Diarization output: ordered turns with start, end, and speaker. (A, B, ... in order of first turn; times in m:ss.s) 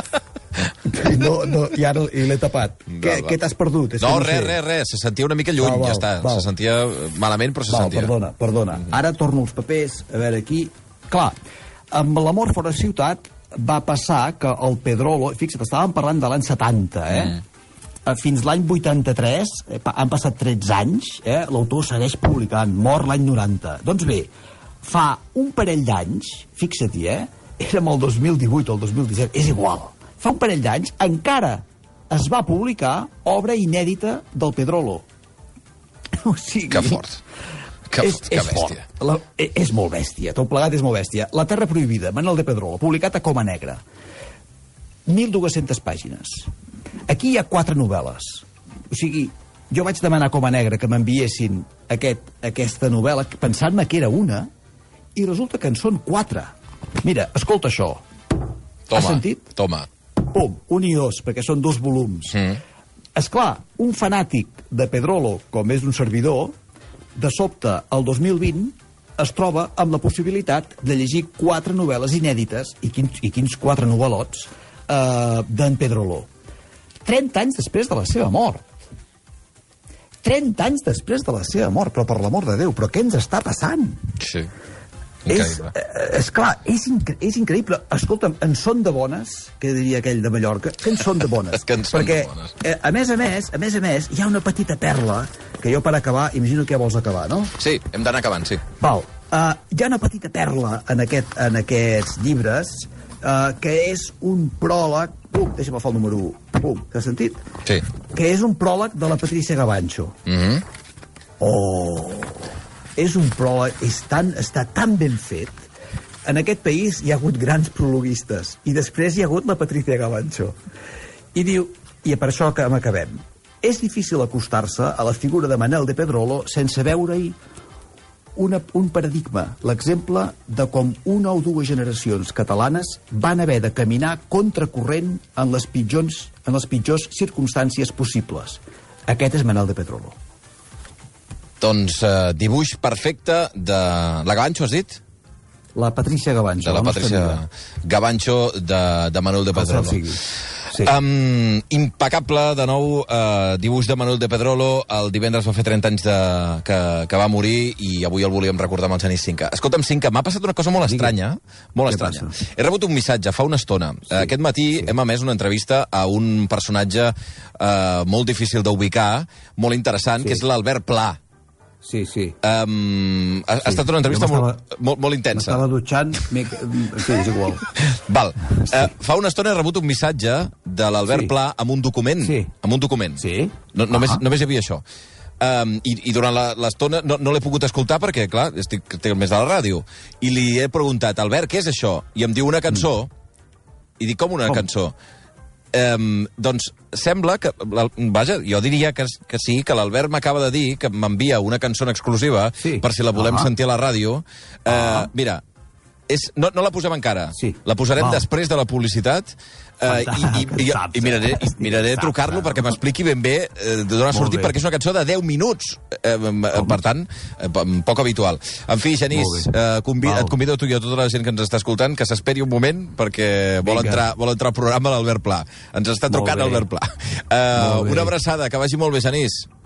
0:00.8-0:04.6 A
0:02.9-0:03.4 B
0:04.0-0:08.1 B
0:05.6-0:06.5 A
0:07.7-0:11.4 A
0:11.9-0:17.4 A
0:18.0-0:24.3 A
0:24.8-0:35.0 A
0:36.2-0:37.0 A
0:36.7-0:37.2 B
0:37.9-0:38.8 B
0:38.0-0:43.8 A
0:45.1-0:46.5 A
0:47.1-0:54.5 A
0:55.2-0:58.0 A
0:58.9-0:59.9 B
0:58.9-0:59.5 A
1:00.2-1:02.4 A
1:02.3-1:02.6 B
1:03.2-1:06.5 A
1:07.1-1:16.3 A
1:17.0-1:18.6 A
1:20.2-1:24.1 A
1:24.2-1:24.5 B
1:25.2-1:25.7 B
1:25.3-1:37.5 A
1:31.5-1:32.5 B
1:37.6-1:38.6 B
1:38.8-1:47.4 A
1:48.1-1:50.2 A
1:50.3-1:50.6 B
1:51.4-1:52.4 A
1:53.0-1:55.7 A
1:56.2-2:00.5 A
2:01.3-2:07.4 A
2:08.4-2:20.1 A
2:21.6-2:25.0 B
2:25.8-2:27.4 A
2:26.6-2:30.0 B
2:29.5-2:30.9 A
2:30.7-2:51.2 B
2:40.8-2:41.1 A
2:41.9-2:42.3 A
2:51.8-2:52.4 A
2:52.4-2:55.6 B
2:53.6-2:54.6 A
2:55.3-2:57.7 A
2:57.8-3:04.8 B
3:01.1-3:01.3 A
3:02.2-3:02.5 A
3:03.2-3:04.2 A
3:05.4-3:13.1 B
3:14.0-3:14.9 B
3:15.7-3:25.4 B
3:22.6-3:23.5 A
3:24.7-3:25.1 A
3:26.1-3:49.5 B
3:27.4-3:28.2 A
3:29.9-3:32.7 A
3:34.1-3:34.5 A
3:39.1-3:40.4 A
3:43.6-3:44.0 A
3:46.1-3:46.6 A
3:47.5-3:48.1 A